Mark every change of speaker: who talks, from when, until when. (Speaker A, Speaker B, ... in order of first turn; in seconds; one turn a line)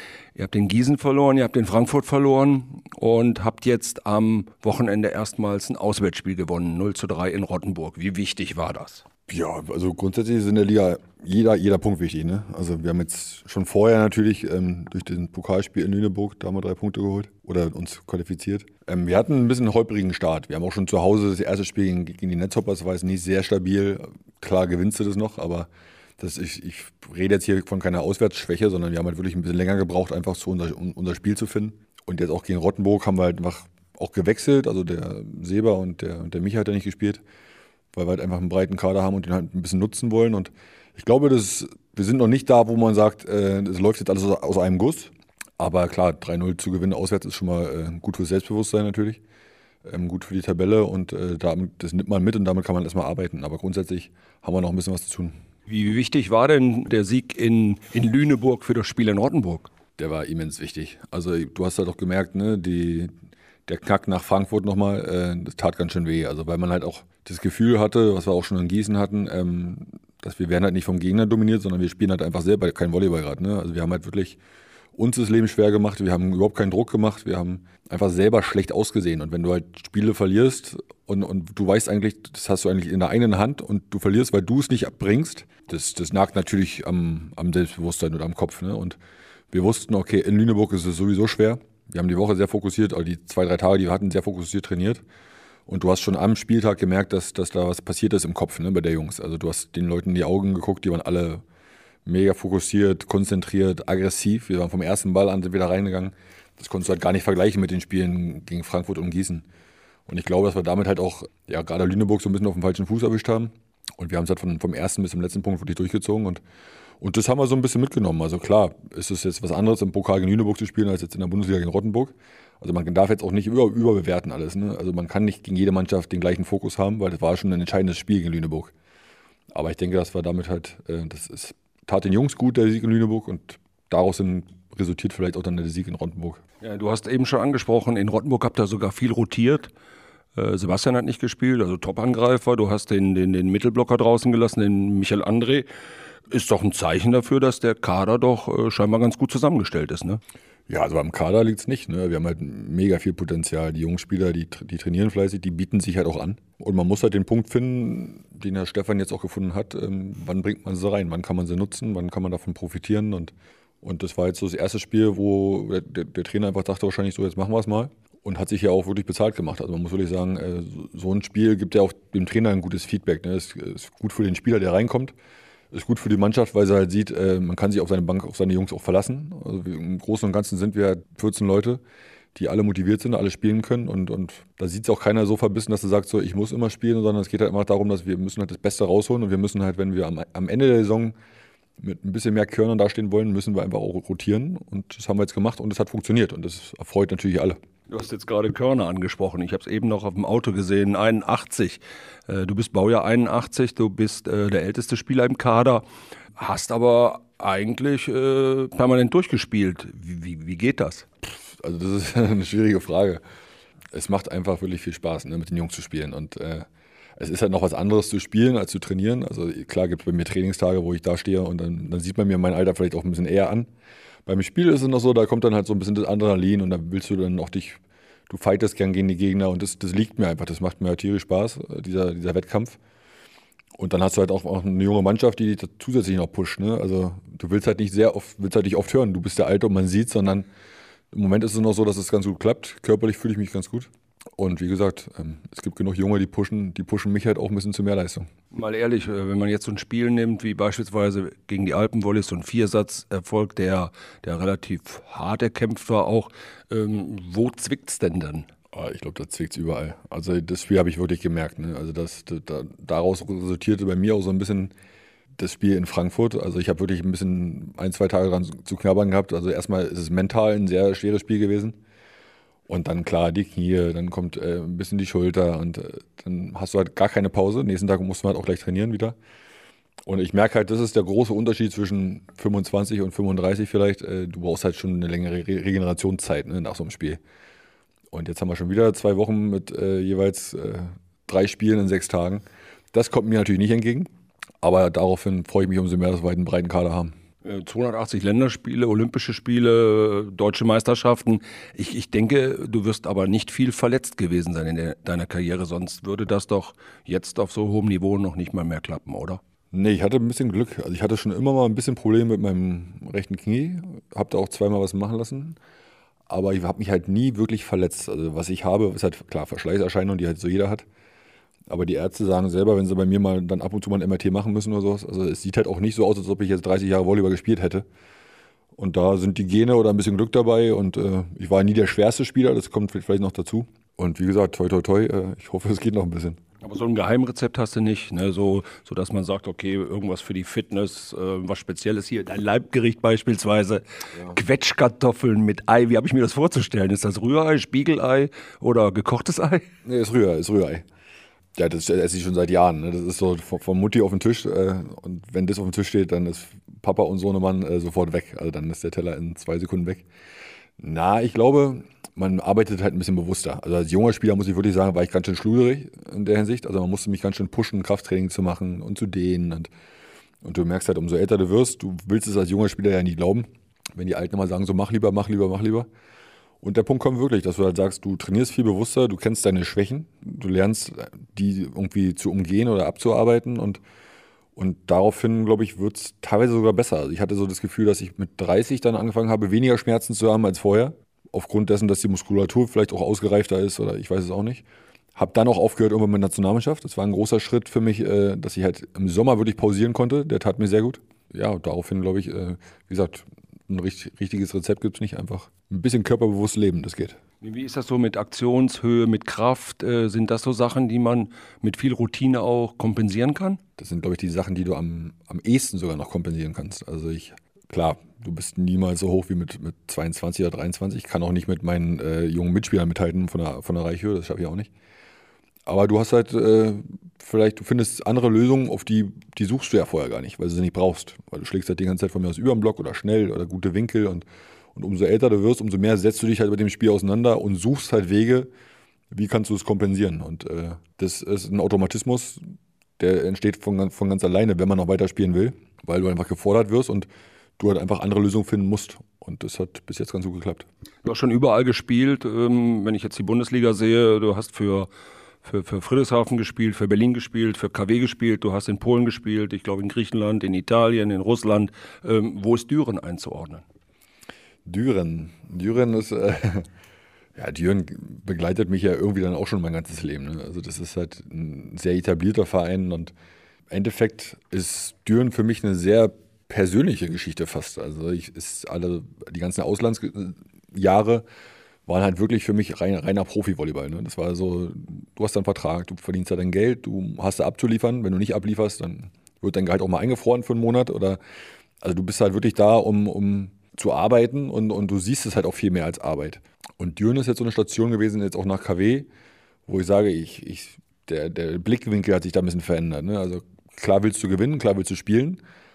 Speaker A: 0.3-9.0
Speaker B: 9.3-37.2
Speaker B: 37.9-49.2
Speaker B: 49.8-55.3
Speaker A: 55.7-59.7
Speaker B: 60.0-63.1
Speaker B: 63.7-74.4
Speaker B: 74.9-89.0
Speaker B: 89.5-95.0
Speaker B: 95.7-101.4
Speaker B: 102.0-109.5
Speaker B: 110.1-116.4
Speaker B: 117.0-128.7
Speaker B: 129.5-136.4
Speaker A: 136.6-139.7
Speaker A: 140.3-145.7
Speaker A: 146.3-150.2
Speaker B: 150.7-175.1
Speaker B: 175.7-181.8
Speaker B: 182.3-191.1
Speaker B: 191.8-197.6
Speaker A: 197.9-205.8
Speaker A: 206.4-211.1
Speaker B: 211.4-213.2
Speaker B: 213.9-216.7
Speaker B: 217.2-223.7
Speaker B: 224.2-232.8
Speaker B: 233.8-240.5
Speaker B: 241.1-248.2
Speaker A: 248.5-258.5
Speaker B: 258.7-264.7
Speaker B: 265.4-271.8
Speaker B: 272.7-279.1
Speaker B: 280.1-287.2
Speaker B: 288.1-294.1
Speaker B: 294.6-297.1
Speaker A: 297.4-309.4
Speaker B: 309.7-315.6
Speaker B: 316.3-320.8
Speaker B: 321.7-327.9
Speaker B: 328.8-336.4
Speaker A: 336.6-349.6
Speaker B: 349.8-350.8
Speaker B: 351.5-360.1
Speaker B: 360.8-369.7
Speaker B: 370.4-375.9
Speaker B: 376.6-383.8
Speaker B: 384.6-394.6
Speaker B: 395.1-407.2
Speaker A: 407.4-413.6
Speaker B: 413.8-424.7
Speaker B: 425.6-438.5
Speaker B: 439.1-442.4
Speaker B: 443.0-447.1
Speaker B: 447.6-450.6
Speaker A: 451.0-454.9
Speaker A: 455.4-463.6
Speaker B: 464.6-466.6
Speaker B: 467.4-473.1
Speaker B: 473.7-481.2
Speaker B: 481.9-491.2
Speaker B: 491.8-499.1
Speaker B: 499.7-505.4